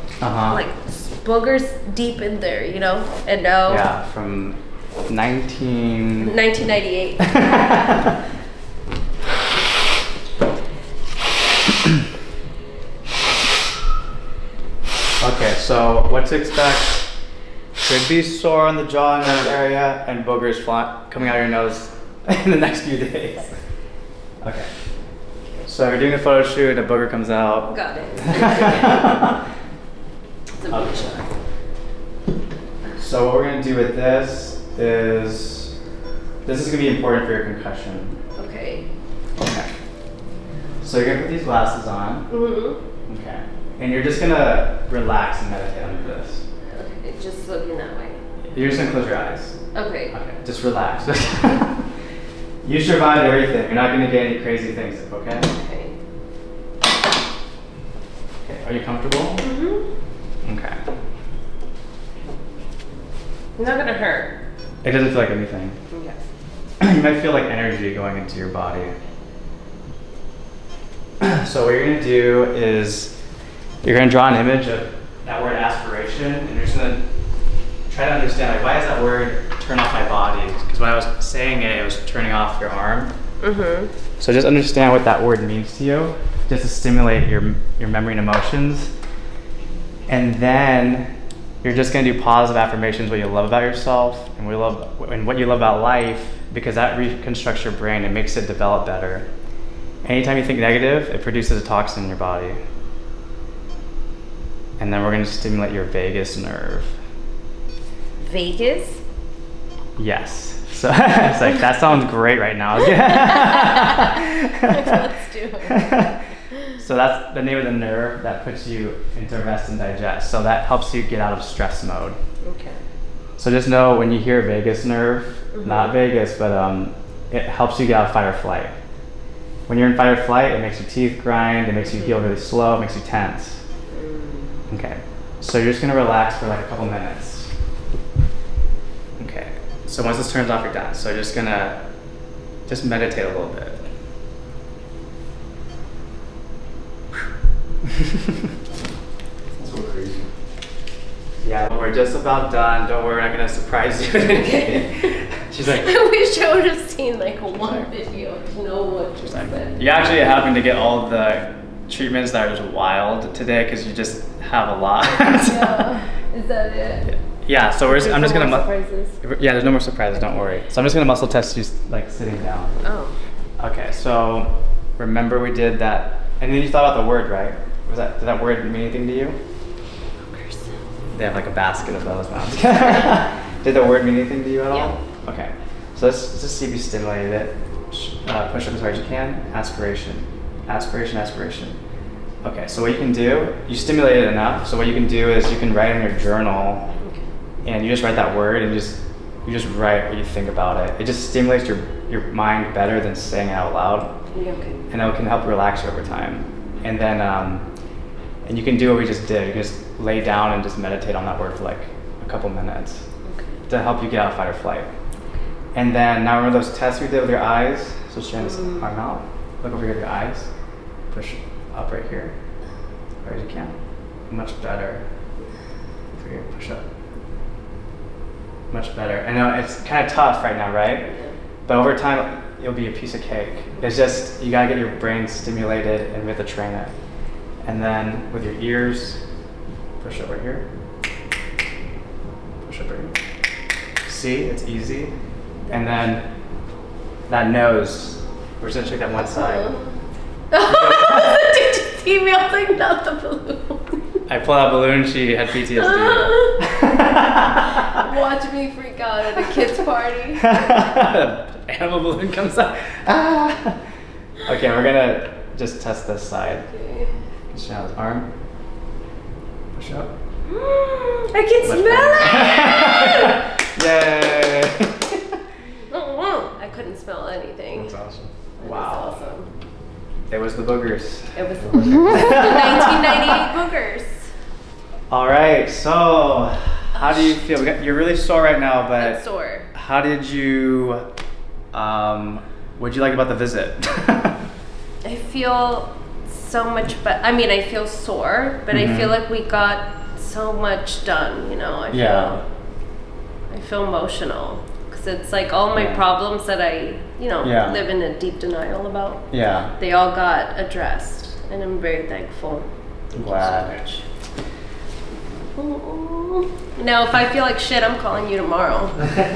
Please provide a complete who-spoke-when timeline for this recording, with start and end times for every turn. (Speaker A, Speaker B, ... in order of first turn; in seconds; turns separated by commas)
Speaker A: 0.2-0.6, Speaker B: 0.5-3.8, Speaker A: 3.7-6.3, Speaker B: 6.2-7.6, Speaker A: 7.2-8.2, Speaker A: 15.2-17.1, Speaker A: 17.8-23.5, Speaker A: 24.4-24.7, Speaker A: 25.6-29.4, Speaker B: 27.7-29.2, Speaker B: 30.6-31.2, Speaker A: 30.7-31.2, Speaker A: 33.0-35.7, Speaker A: 36.4-38.2, Speaker B: 38.4-38.9, Speaker A: 39.4-39.7, Speaker A: 40.8-42.3, Speaker B: 42.3-42.8, Speaker A: 43.1-46.4, Speaker B: 46.7-48.2, Speaker A: 48.5-49.6, Speaker B: 49.7-50.1, Speaker A: 50.1-51.9, Speaker A: 52.6-55.5, Speaker B: 55.5-56.0, Speaker A: 58.4-59.4, Speaker B: 59.4-59.9, Speaker A: 60.4-60.8, Speaker B: 63.6-64.3, Speaker A: 64.8-65.8, Speaker B: 65.9-66.2, Speaker A: 66.8-68.9, Speaker A: 71.2-73.1, Speaker A: 73.8-77.0, Speaker A: 77.9-83.1, Speaker B: 83.4-83.9, Speaker A: 84.2-88.9, Speaker A: 90.1-99.3, Speaker A: 100.0-102.6, Speaker A: 104.8-107.0, Speaker B: 108.2-109.0, Speaker A: 110.0-115.0, Speaker B: 112.9-115.9, Speaker A: 115.6-116.2, Speaker A: 116.7-122.2, Speaker B: 122.4-122.8, Speaker A: 123.4-128.7, Speaker B: 125.5-125.9, Speaker A: 129.7-133.6, Speaker B: 131.9-132.2, Speaker B: 133.9-134.5, Speaker A: 134.7-137.5, Speaker A: 139.2-141.8, Speaker A: 142.7-143.8, Speaker C: 149.6-150.3, Speaker A: 151.4-155.9, Speaker B: 154.5-155.0, Speaker B: 155.8-159.7, Speaker A: 157.5-157.9, Speaker A: 159.2-165.8, Speaker B: 165.4-167.1, Speaker A: 167.0-172.8, Speaker B: 167.9-169.2, Speaker B: 172.8-173.1, Speaker A: 173.6-179.4, Speaker B: 180.2-180.7, Speaker A: 181.1-191.8, Speaker A: 192.4-196.9, Speaker A: 197.6-204.2, Speaker B: 204.3-204.8, Speaker A: 204.9-207.7, Speaker A: 208.4-213.1, Speaker B: 213.2-213.6, Speaker A: 213.7-214.9, Speaker A: 215.7-220.5, Speaker B: 218.4-218.8, Speaker A: 221.1-222.3, Speaker A: 223.2-223.8, Speaker A: 224.3-225.0, Speaker A: 226.1-226.9, Speaker A: 228.7-231.1, Speaker B: 231.0-231.3, Speaker A: 231.7-236.9, Speaker A: 237.6-239.2, Speaker A: 240.0-240.7, Speaker A: 242.6-243.1, Speaker A: 244.0-245.1, Speaker A: 245.7-246.2, Speaker A: 247.3-249.7, Speaker B: 249.3-249.9, Speaker B: 250.5-254.2, Speaker A: 250.6-251.4, Speaker A: 254.3-257.9, Speaker B: 255.8-256.5, Speaker B: 257.9-260.6, Speaker A: 260.4-263.8, Speaker A: 264.4-266.7, Speaker B: 266.7-267.1, Speaker A: 267.5-268.3, Speaker A: 269.7-270.1, Speaker B: 270.5-273.4, Speaker A: 271.6-275.1, Speaker B: 275.9-277.9, Speaker C: 277.7-278.3, Speaker A: 278.6-279.1, Speaker B: 278.6-279.5, Speaker A: 280.3-283.4, Speaker B: 281.3-284.3, Speaker C: 281.6-282.3, Speaker A: 285.1-289.2, Speaker B: 286.9-287.3, Speaker B: 289.0-289.7, Speaker A: 289.7-291.1, Speaker A: 291.7-294.4, Speaker B: 295.0-302.4, Speaker A: 298.7-299.1, Speaker A: 301.9-302.4, Speaker B: 303.5-314.0, Speaker A: 305.7-306.0, Speaker A: 307.4-307.8, Speaker A: 309.3-309.7, Speaker A: 313.1-313.8, Speaker B: 315.6-319.0